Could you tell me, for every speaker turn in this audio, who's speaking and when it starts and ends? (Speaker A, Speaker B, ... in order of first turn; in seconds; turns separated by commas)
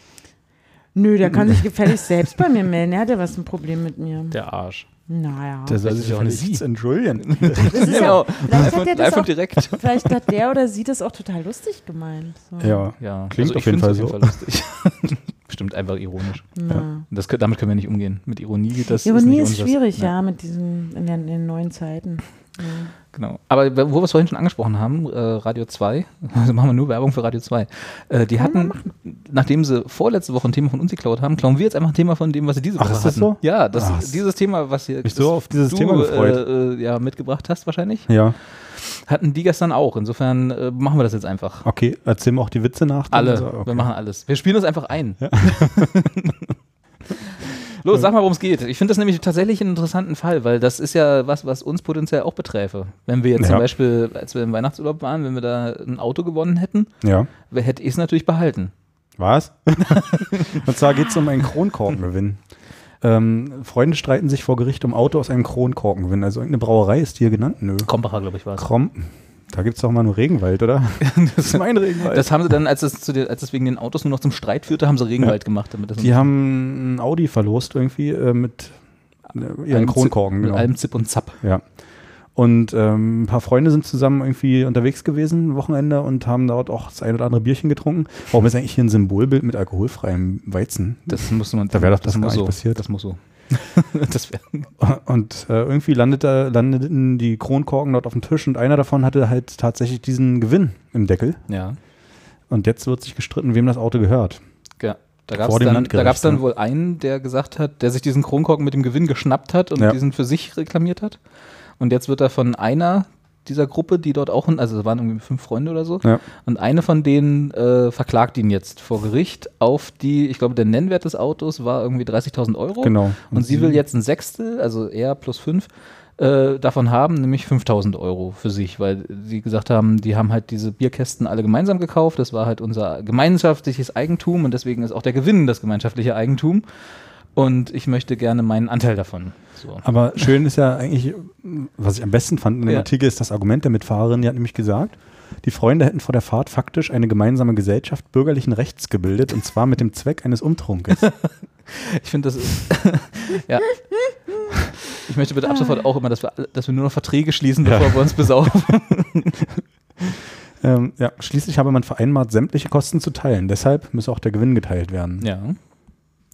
Speaker A: 0.9-4.4, Speaker B: 4.3-4.9, Speaker A: 5.1-5.8, Speaker C: 5.7-8.7, Speaker B: 5.8-6.6, Speaker B: 7.2-9.8, Speaker A: 7.6-12.9, Speaker C: 12.6-14.4, Speaker B: 13.0-20.1, Speaker A: 16.6-17.1, Speaker A: 19.0-22.9, Speaker B: 23.1-41.7, Speaker A: 28.4-28.9, Speaker C: 32.8-34.2, Speaker C: 35.0-36.4, Speaker C: 38.1-38.4, Speaker C: 41.6-43.9, Speaker B: 43.1-46.4, Speaker C: 45.2-45.9, Speaker B: 47.1-56.9, Speaker C: 53.4-53.6, Speaker C: 57.0-57.3, Speaker B: 57.5-58.7, Speaker C: 59.2-67.9, Speaker B: 59.9-60.6, Speaker B: 67.8-68.7, Speaker C: 68.5-72.3, Speaker B: 71.0-76.3, Speaker C: 76.0-78.8, Speaker C: 79.3-92.8, Speaker B: 79.7-81.4, Speaker B: 91.1-94.7, Speaker C: 94.8-101.4, Speaker B: 101.5-101.8, Speaker C: 102.5-104.4, Speaker B: 104.8-111.2, Speaker C: 105.3-106.4, Speaker B: 111.8-136.6, Speaker C: 122.8-123.8, Speaker B: 137.3-139.9, Speaker C: 139.8-151.1, Speaker B: 151.0-154.1, Speaker B: 154.9-159.4, Speaker C: 157.7-157.9, Speaker C: 160.6-165.3, Speaker B: 165.2-165.6